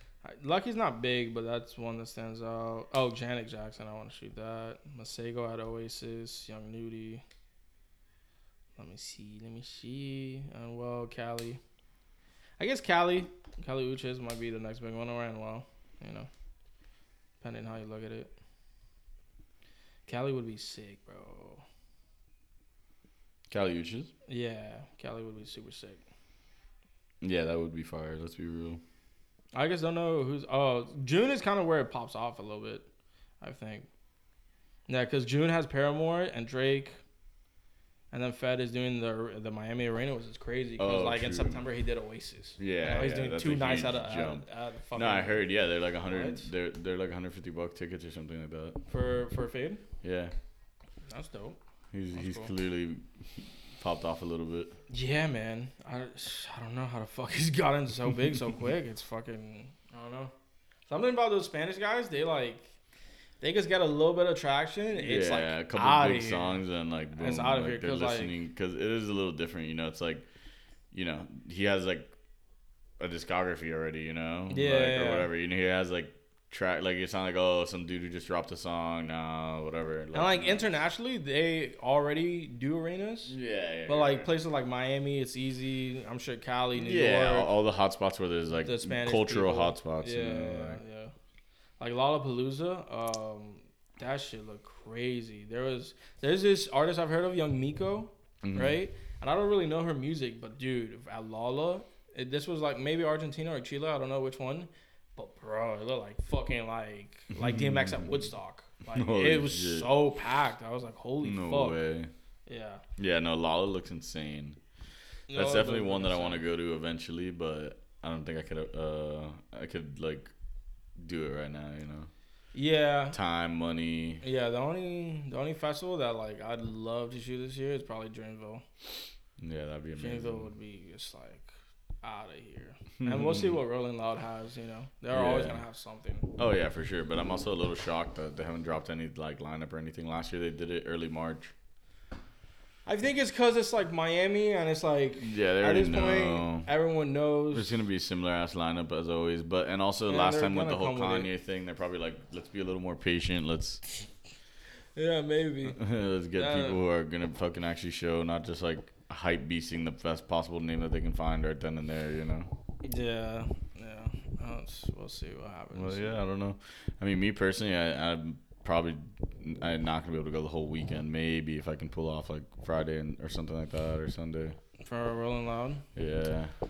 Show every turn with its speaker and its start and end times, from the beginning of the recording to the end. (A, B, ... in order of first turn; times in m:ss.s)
0:00.2-0:07.2 A
0:08.8-0:11.6 A
0:12.6-0:16.3 A
0:17.4-0:18.3 A
0:20.1-0:21.6 A
0:23.5-0:24.1 B
0:24.3-0:26.0 A
0:27.2-0:28.8 B
0:29.5-0:32.9 A
0:33.4-0:33.9 A
0:34.9-0:37.0 A
0:38.1-0:45.5 A
0:40.8-0:41.6 B
0:42.6-0:48.8 B
0:46.0-0:46.5 A
0:48.9-0:49.8 A
0:50.0-0:50.3 B
0:51.1-0:51.6 A
0:51.9-0:54.8 B
0:52.1-0:52.5 A
0:54.9-1:00.3 A
1:00.9-1:02.7 A
1:03.4-1:06.6 A
1:04.9-1:10.3 B
1:07.2-1:08.3 A
1:10.9-1:12.1 B
1:13.0-1:20.7 B
1:14.5-1:15.3 A
1:20.1-1:23.4 A
1:23.3-1:24.3 B
1:23.9-1:27.5 A
1:26.8-1:30.8 B
1:28.6-1:31.1 A
1:31.8-1:51.8 A
1:38.4-1:38.8 B
1:47.3-1:48.2 B
1:48.9-1:50.0 B
1:51.2-1:52.1 B
1:52.5-1:52.8 A
1:53.0-1:54.6 B
1:55.3-1:56.4 A
1:55.3-2:00.3 B
2:01.0-2:02.1 B
2:02.5-2:03.2 A
2:03.1-2:04.2 B
2:04.2-2:08.6 A
2:09.4-2:10.5 B
2:10.0-2:16.3 A
2:13.0-2:13.6 B
2:15.1-2:15.6 B
2:16.4-2:21.5 B
2:22.9-2:27.8 A
2:25.2-2:26.7 B
2:27.5-2:33.8 B
2:30.1-2:31.3 A
2:35.0-2:35.8 A
2:35.7-2:42.5 B
2:36.4-2:36.8 A
2:42.8-2:46.1 A
2:45.8-2:54.6 B
2:54.8-2:55.8 A
2:56.0-2:56.5 B